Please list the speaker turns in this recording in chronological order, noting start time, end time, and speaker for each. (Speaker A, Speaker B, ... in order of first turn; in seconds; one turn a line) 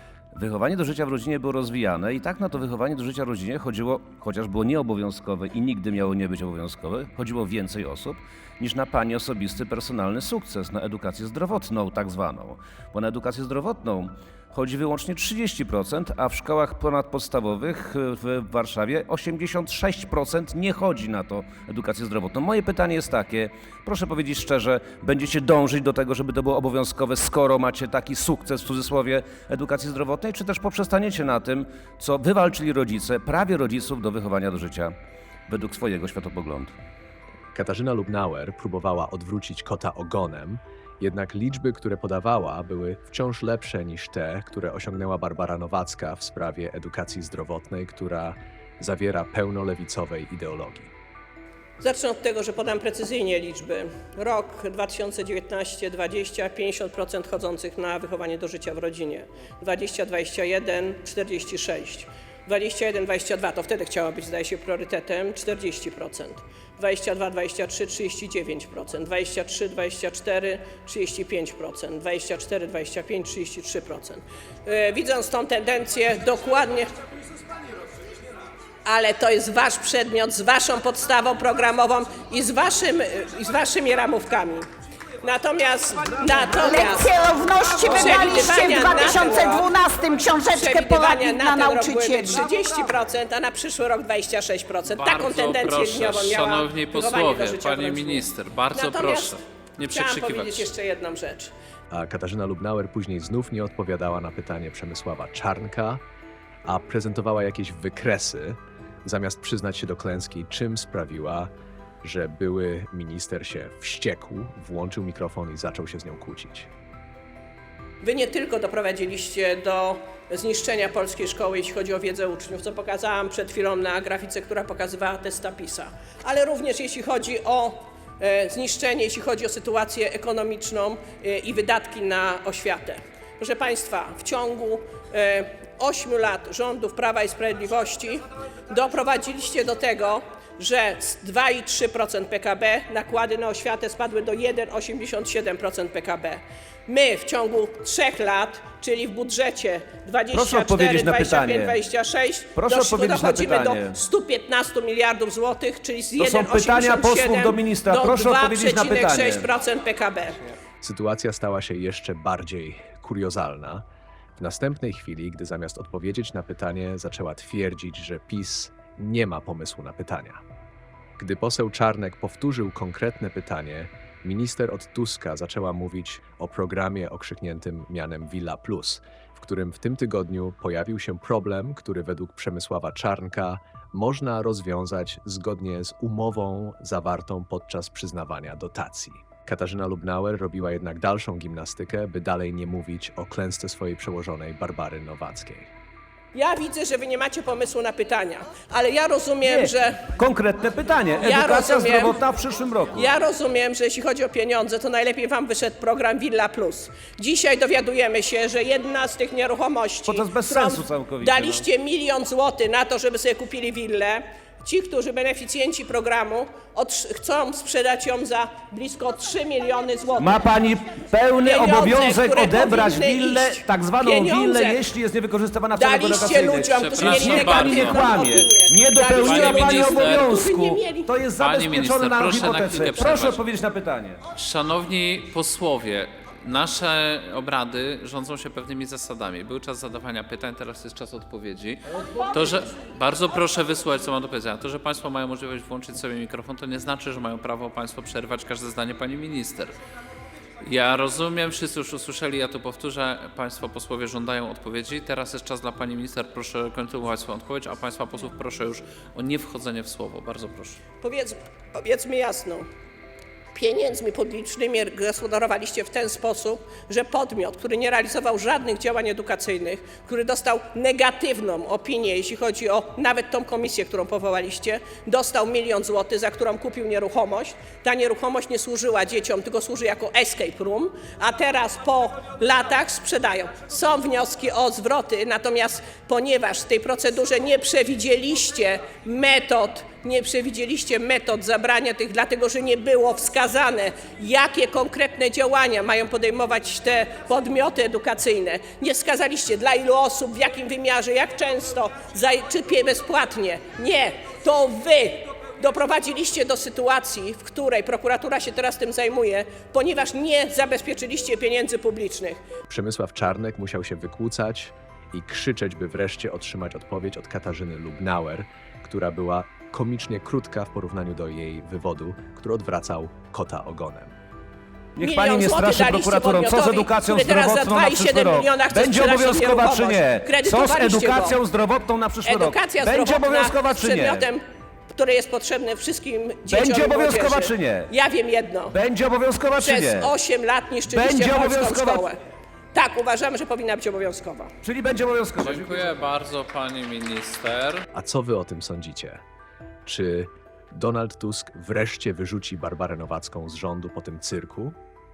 Speaker A: 0.3-34.9
Speaker A: 35.5-36.7
Speaker B: 37.5-50.9
Speaker C: 51.8-76.9
Speaker C: 78.8-84.7
Speaker C: 85.2-87.2
Speaker D: 86.6-92.5
Speaker C: 87.8-89.8
Speaker C: 90.5-101.5
Speaker E: 94.9-100.7
Speaker B: 101.9-106.0
Speaker B: 106.7-111.5
Speaker B: 112.0-116.7
Speaker C: 118.0-160.5
Speaker A: 150.3-151.8
Speaker A: 152.6-154.0
Speaker A: 156.2-159.5
Speaker B: 160.8-163.8
Speaker B: 164.4-170.4
Speaker B: 171.2-195.7
Speaker C: 196.3-200.0
Speaker A: 199.4-203.1
Speaker C: 201.2-202.1
Speaker C: 202.9-220.4
Speaker A: 210.1-211.7
Speaker A: 220.2-234.2
Speaker C: 221.4-224.8
Speaker C: 225.8-231.1
Speaker E: 226.8-228.1
Speaker E: 229.2-230.3
Speaker E: 231.4-233.4
Speaker E: 234.3-249.8
Speaker E: 250.6-260.8
Speaker C: 261.0-262.7
Speaker C: 263.5-312.4
Speaker B: 312.7-324.1
Speaker A: 324.9-334.3
Speaker C: 325.0-331.4
Speaker C: 332.2-338.7
Speaker A: 336.5-337.9
Speaker A: 338.7-340.1
Speaker C: 339.6-342.2
Speaker A: 340.9-342.1
Speaker C: 342.7-344.5
Speaker A: 344.6-345.9
Speaker E: 345.4-347.9
Speaker B: 347.9-349.2
Speaker B: 349.9-354.8